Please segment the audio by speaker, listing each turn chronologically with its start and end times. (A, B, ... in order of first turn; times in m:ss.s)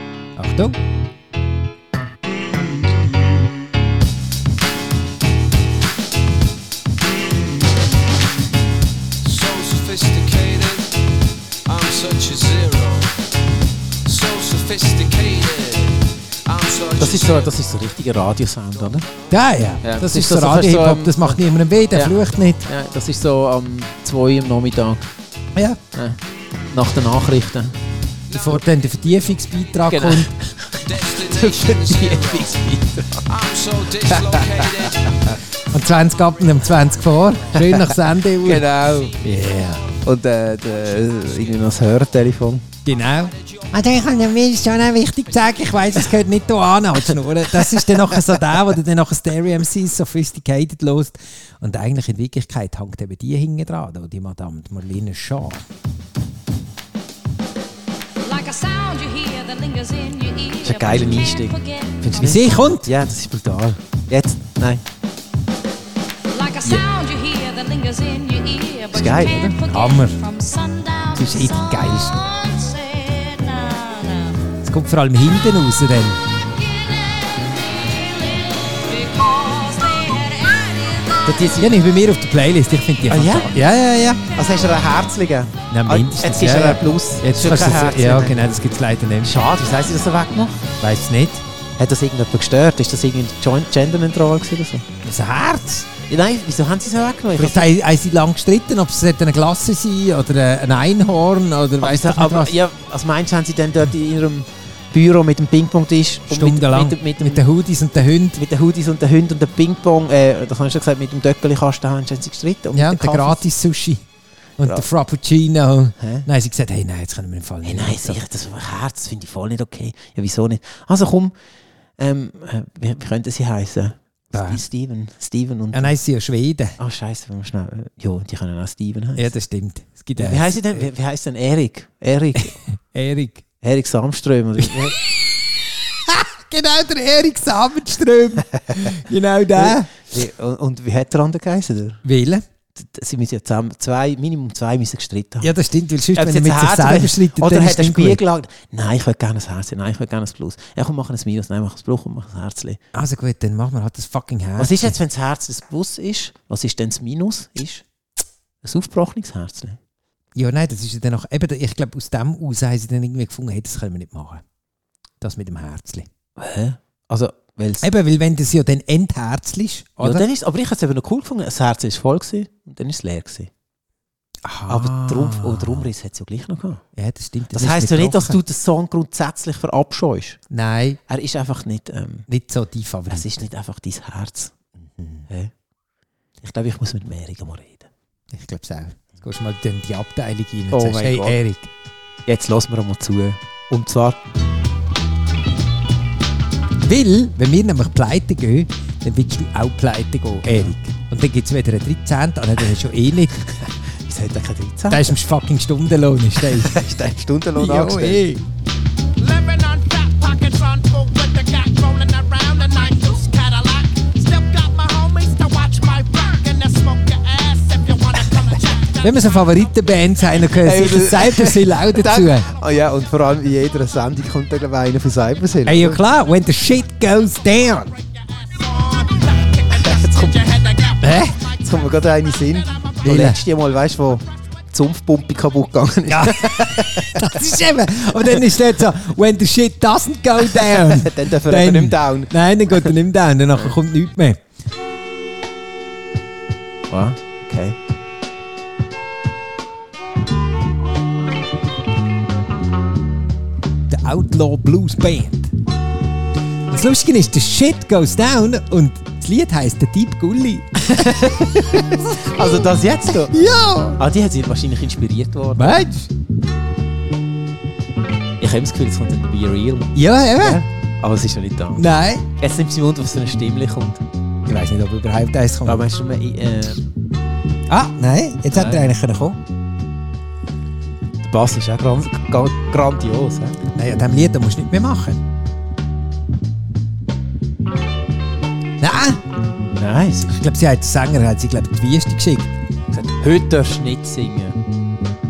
0:00.4-0:00.8 A
0:09.2-0:10.9 B
0:11.7-0:13.1 B
0:14.0-0:17.5 B
0:17.0-0:19.1 C
0:19.3-0:22.6 A
0:19.8-0:21.4 C
0:21.9-0:25.1 C
0:25.5-0:25.8 A
0:26.7-0:27.8 C
0:28.3-0:30.3 A
0:29.9-0:33.3 C
0:30.8-0:32.6 B
0:33.3-0:35.1 B
0:34.1-0:35.3 C
0:35.7-0:39.8 A
0:37.5-0:39.4 C
0:39.9-0:42.6 C
0:42.8-0:55.6 A
0:47.1-0:48.5 C
0:58.2-1:02.5 D
1:00.6-1:04.8 C
1:02.2-1:02.9 A
1:06.3-1:14.5 D
1:08.9-1:09.5 C
1:09.6-1:10.2 A
1:11.2-1:12.2 A
1:14.6-1:16.2 A
1:16.5-1:21.6 D
1:21.2-1:21.8 C
1:21.6-1:24.2 A
1:23.1-1:23.5 C
1:24.3-1:28.6 C
1:25.7-1:29.5 A
1:29.2-1:30.7 C
1:30.8-1:31.4 A
1:31.8-1:34.9 C
1:35.0-1:35.9 A
1:36.1-1:37.7 C
1:37.4-1:42.5 A
1:41.8-1:47.4 C
1:46.3-1:48.4 A
1:48.4-1:53.4 C
1:52.7-1:54.0 A
1:54.6-1:58.2 A
1:54.6-1:54.9 C
1:56.0-1:56.2 C
1:57.6-2:01.3 C
2:02.0-2:06.0 C
2:04.3-2:04.6 A
2:05.7-2:06.8 A
2:06.8-2:09.3 C
2:09.2-2:10.9 A
2:10.2-2:12.6 C
2:12.8-2:13.4 A
2:13.6-2:15.0 C
2:15.9-2:19.9 A
2:19.6-2:22.0 C
2:22.0-2:22.4 A
2:22.8-2:25.5 C
2:25.4-2:28.2 A
2:26.2-2:32.8 C
2:32.9-2:35.0 A
2:34.6-2:37.8 C
2:38.6-2:39.8 C
2:40.3-2:44.4 A
2:45.2-2:46.1 A
2:46.4-2:47.8 C
2:47.8-2:50.2 A
2:50.0-2:53.5 C
2:54.4-2:55.9 A
2:54.7-2:56.8 C
2:57.0-2:58.4 A
2:57.5-3:00.4 C
3:00.5-3:01.0 A
3:01.1-3:02.2 C
3:02.3-3:03.3 A
3:03.1-3:04.5 C
3:04.8-3:05.3 A
3:06.4-3:07.9 C
3:08.3-3:11.7 A
3:10.7-3:11.4 C
3:12.3-3:14.2 C
3:16.8-3:23.4 A
3:23.6-3:25.1 C
3:24.9-3:26.8 A
3:26.4-3:28.2 C
3:27.6-3:28.5 A
3:29.2-3:39.4 E
3:39.0-3:42.5 A
3:40.5-3:46.0 C
3:45.7-3:47.9 A
3:48.3-3:51.6 E
3:49.8-3:50.4 C
3:51.0-3:51.4 A
3:51.6-3:57.5 C
3:53.0-3:53.4 A
3:56.1-4:04.4 A
4:00.4-4:02.9 C
4:06.9-4:07.8 C
4:13.9-4:15.5 A
4:16.7-4:24.0 A
4:20.9-4:21.5 C
4:22.1-4:23.3 C
4:24.0-4:25.8 C
4:25.6-4:26.1 A
4:28.4-4:31.8 C
4:30.0-4:30.6 A
4:31.8-4:32.2 A
4:32.4-4:34.0 C
4:34.5-4:35.8 A
4:35.6-4:36.8 C
4:37.7-4:39.4 A
4:38.5-4:38.9 C
4:41.2-4:43.6 C
4:43.7-4:45.2 A
4:48.8-4:49.2 A
4:49.7-4:50.4 C
4:50.3-4:52.5 A
4:52.9-4:54.6 C